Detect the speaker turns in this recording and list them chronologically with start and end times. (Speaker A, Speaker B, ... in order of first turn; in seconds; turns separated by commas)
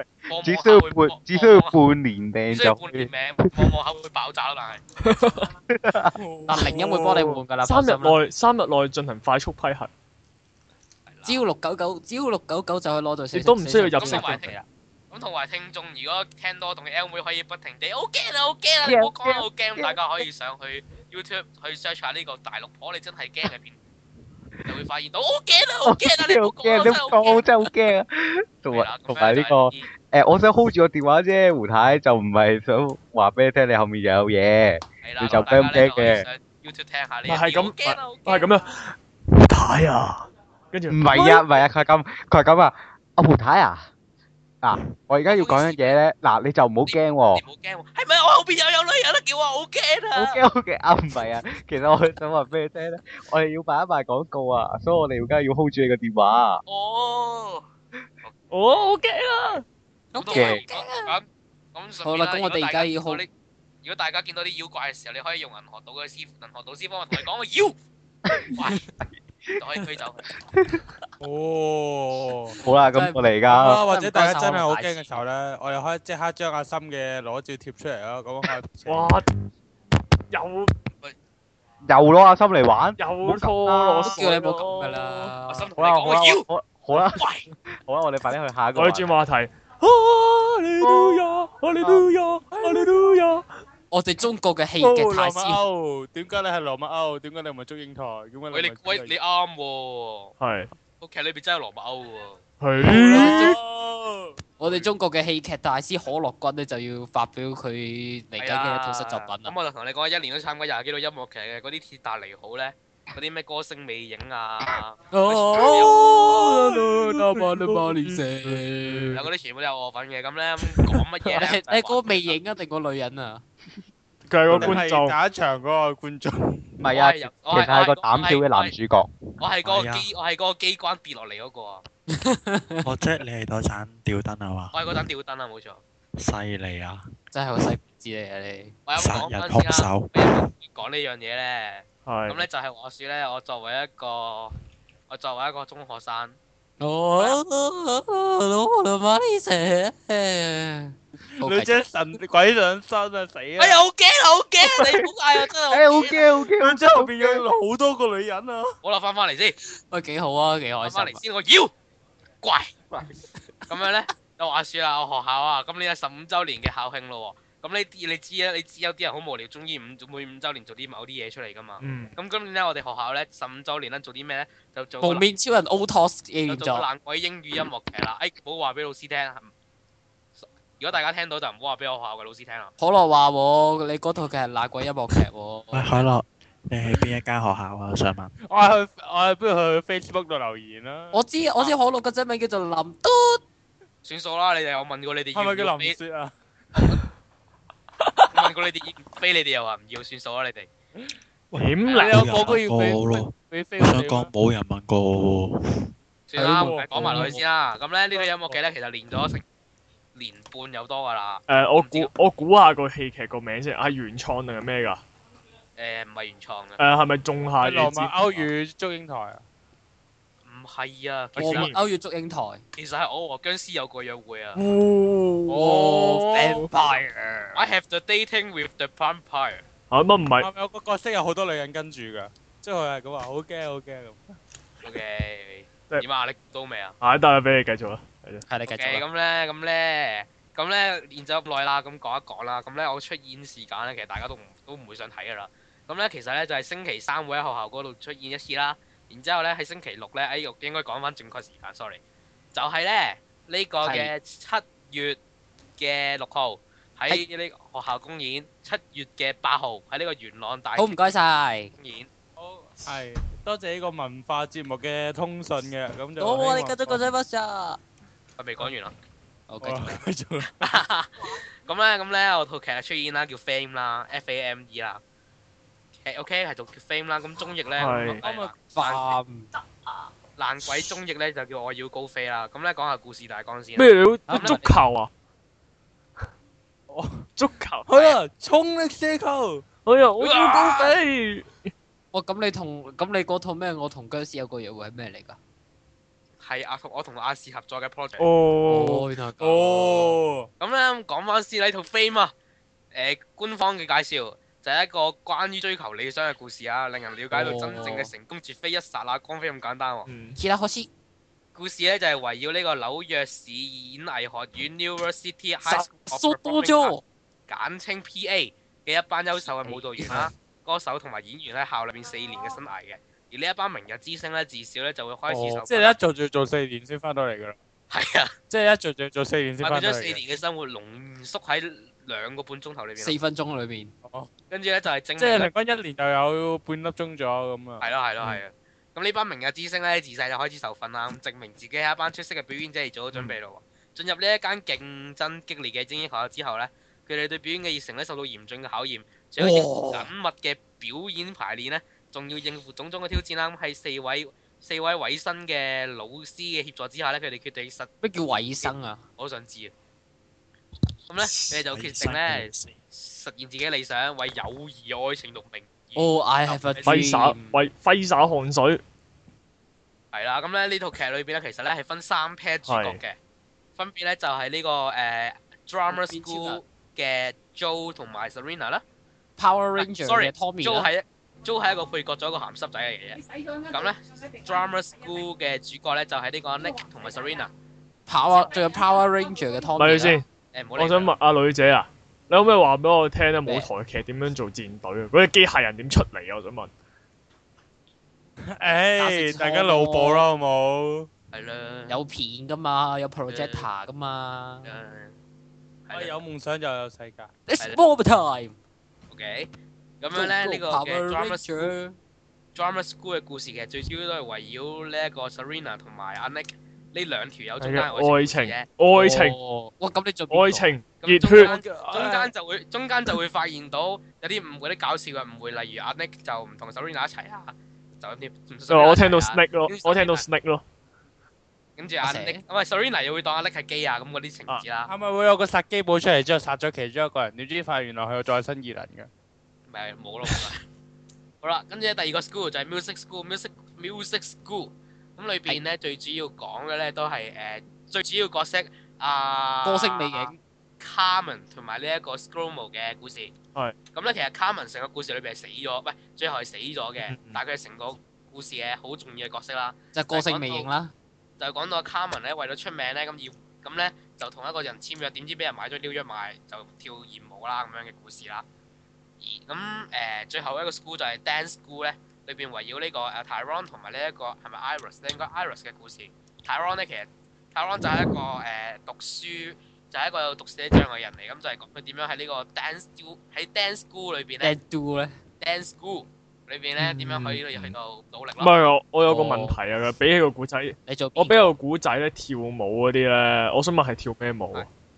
Speaker A: 0.3-3.8, Speaker B: 0.3-1.8, Speaker B: 2.5-4.8, Speaker C: 5.0-5.5, Speaker A: 5.7-6.1, Speaker D: 6.1-6.6, Speaker E: 6.5-8.2, Speaker C: 6.5-9.9, Speaker B: 11.1-11.4, Speaker E: 11.2-14.7, Speaker C: 13.3-14.4, Speaker B: 14.0-14.5, Speaker B: 15.1-23.8, Speaker A: 18.8-20.0, Speaker B: 24.6-27.5, Speaker A: 25.9-36.2, Speaker B: 28.7-29.9, Speaker B: 35.0-38.5, Speaker C: 37.2-41.5, Speaker A: 40.9-43.9, Speaker A: 44.6-47.4, Speaker B: 45.2-46.0, Speaker B: 46.9-50.4, Speaker A: 50.1-56.6, Speaker B: 56.6-57.7, Speaker C: 58.5-59.6, Speaker E: 60.1-61.1, Speaker B: 60.2-63.3, Speaker A: 60.3-60.6, Speaker E: 62.0-63.2, Speaker B: 63.8-67.8, Speaker A: 68.3-68.5, Speaker B: 68.5-68.9, Speaker B: 69.5-70.2, Speaker A: 70.5-70.8, Speaker D: 71.2-72.6, Speaker A: 72.6-73.8, Speaker E: 72.7-75.2, Speaker D: 73.5-79.1, Speaker C: 78.8-79.3, Speaker C: 80.3-80.7, Speaker A: 81.8-84.2, Speaker C: 83.0-85.3, Speaker E: 84.0-85.7, Speaker B: 85.5-86.5, Speaker A: 85.8-89.1, Speaker B: 87.0-87.5, Speaker C: 88.8-93.4, Speaker A: 90.8-91.2, Speaker E: 93.9-95.6, Speaker D: 94.8-99.1, Speaker B: 98.5-100.3, Speaker C: 100.4-100.7, Speaker B: 101.0-102.4, Speaker C: 102.6-103.6, Speaker E: 102.9-103.5, Speaker D: 103.1-104.4, Speaker E: 104.6-109.5, Speaker B: 108.4-116.2, Speaker E: 115.1-119.2, Speaker D: 115.6-118.2, Speaker B: 119.1-122.4, Speaker E: 121.2-123.4, Speaker C: 124.3-125.2, Speaker D: 124.5-126.7, Speaker A: 126.8-129.1, Speaker B: 126.9-128.7, Speaker B: 129.4-131.8, Speaker F: 129.6-130.1, Speaker E: 132.1-132.9, Speaker F: 132.8-135.0, Speaker B: 134.7-135.8, Speaker F: 136.2-137.1, Speaker E: 137.3-138.8, Speaker B: 138.9-144.5, Speaker F: 139.0-140.5, Speaker C: 142.1-142.5, Speaker B: 145.1-146.4, Speaker E: 146.8-151.8, Speaker D: 151.4-153.8, Speaker B: 153.6-156.3, Speaker A: 154.7-155.0, Speaker A: 155.7-157.4, Speaker D: 156.6-158.8, Speaker B: 158.8-159.6, Speaker E: 159.9-161.2, Speaker B: 160.8-161.7, Speaker B: 162.4-162.7, Speaker B: 163.7-175.2, Speaker C: 171.8-172.1, Speaker E: 175.0-176.9, Speaker B: 176.5-179.5, Speaker B: 180.8-182.7, Speaker E: 182.8-186.1, Speaker F: 185.7-188.3, Speaker D: 188.4-191.2, Speaker E: 191.1-193.4, Speaker B: 194.0-196.0, Speaker D: 195.3-196.9, Speaker B: 198.3-200.7, Speaker F: 201.5-205.9, Speaker C: 201.6-202.6, Speaker B: 201.9-202.2, Speaker D: 201.9-204.3, Speaker B: 206.3-209.4, Speaker E: 206.4-207.3, Speaker D: 206.4-207.4, Speaker C: 206.6-207.4, Speaker D: 208.2-208.6, Speaker B: 210.1-212.1, Speaker C: 211.5-215.0, Speaker B: 215.8-216.8, Speaker C: 216.8-218.4, Speaker D: 217.6-219.4, Speaker B: 220.5-221.7, Speaker C: 221.4-221.8, Speaker E: 221.4-222.6, Speaker B: 222.8-224.6, Speaker C: 224.5-226.7, Speaker E: 225.5-227.7, Speaker D: 225.5-226.6, Speaker B: 227.5-229.6, Speaker C: 229.9-230.5, Speaker D: 230.4-234.4, Speaker B: 234.8-237.0, Speaker C: 237.0-238.4, Speaker E: 238.5-239.0, Speaker B: 238.7-252.0, Speaker B: 252.5-255.2, Speaker E: 253.8-254.1, Speaker B: 255.8-261.1, Speaker E: 260.8-261.7, Speaker B: 261.8-262.1, Speaker D: 262.4-267.1, Speaker E: 266.2-267.8, Speaker B: 268.4-268.9, Speaker E: 269.5-270.0, Speaker D: 269.6-270.7, Speaker B: 270.6-275.0, Speaker B: 276.0-279.1, Speaker C: 277.8-278.2, Speaker D: 278.2-278.5, Speaker E: 278.7-279.5, Speaker B: 280.4-284.6, Speaker C: 283.8-285.1, Speaker E: 284.3-284.8, Speaker D: 286.9-287.2, Speaker C: 287.4-288.0, Speaker D: 287.9-289.6, Speaker C: 289.9-291.7, Speaker B: 290.2-291.0, Speaker E: 292.1-295.4, Speaker B: 296.4-298.3, Speaker C: 298.2-299.0, Speaker E: 298.7-300.2, Speaker D: 299.4-300.5, Speaker B: 300.6-302.3, Speaker B: 302.9-310.1, Speaker E: 307.3-308.1, Speaker C: 310.1-310.4, Speaker E: 310.4-310.9, Speaker B: 311.5-316.9, Speaker E: 315.6-317.0, Speaker B: 317.5-326.0, Speaker E: 319.6-320.2, Speaker D: 325.3-327.6, Speaker B: 327.9-328.3, Speaker D: 328.5-330.2, Speaker B: 329.6-333.1, Speaker E: 333.0-333.9, Speaker D: 334.0-334.3, Speaker B: 334.5-335.5, Speaker D: 335.2-337.9, Speaker B: 337.8-357.9, Speaker E: 349.4-350.1, Speaker E: 358.0-359.0, Speaker B: 358.6-359.7, Speaker B: 361.1-366.9, Speaker F: 361.2-362.8, Speaker E: 366.0-367.6, Speaker C: 366.8-368.8, Speaker B: 370.1-373.1, Speaker C: 372.7-373.0, Speaker B: 373.8-378.8, Speaker E: 375.9-376.6, Speaker E: 379.4-380.9, Speaker B: 379.8-387.5, Speaker E: 388.1-390.2, Speaker C: 389.8-390.2, Speaker B: 390.5-391.1, Speaker C: 390.8-396.7, Speaker D: 398.4-401.1, Speaker E: 399.0-400.3, Speaker B: 401.3-402.0, Speaker E: 401.9-404.8, Speaker B: 403.3-403.7, Speaker B: 404.6-405.1, Speaker B: 405.9-406.1, Speaker D: 405.9-407.3, Speaker E: 407.5-408.6, Speaker B: 409.1-411.6, Speaker E: 410.1-412.0, Speaker B: 412.5-418.6, Speaker C: 417.6-419.4, Speaker E: 418.9-420.7, Speaker C: 420.3-421.5, Speaker B: 421.0-430.2, Speaker D: 421.4-422.3, Speaker C: 428.7-430.6, Speaker B: 431.8-434.9, Speaker E: 432.0-432.4, Speaker D: 434.9-439.1, Speaker B: 439.7-440.6, Speaker B: 441.4-453.3, Speaker E: 449.6-450.4, Speaker B: 453.9-460.7, Speaker C: 457.0-457.4, Speaker E: 459.9-460.9, Speaker B: 461.4-468.4, Speaker B: 469.2-484.5, Speaker E: 484.4-485.1, Speaker B: 485.4-488.5, Speaker C: 486.8-487.7, Speaker C: 488.4-494.7, Speaker E: 489.1-489.6, Speaker E: 490.9-491.5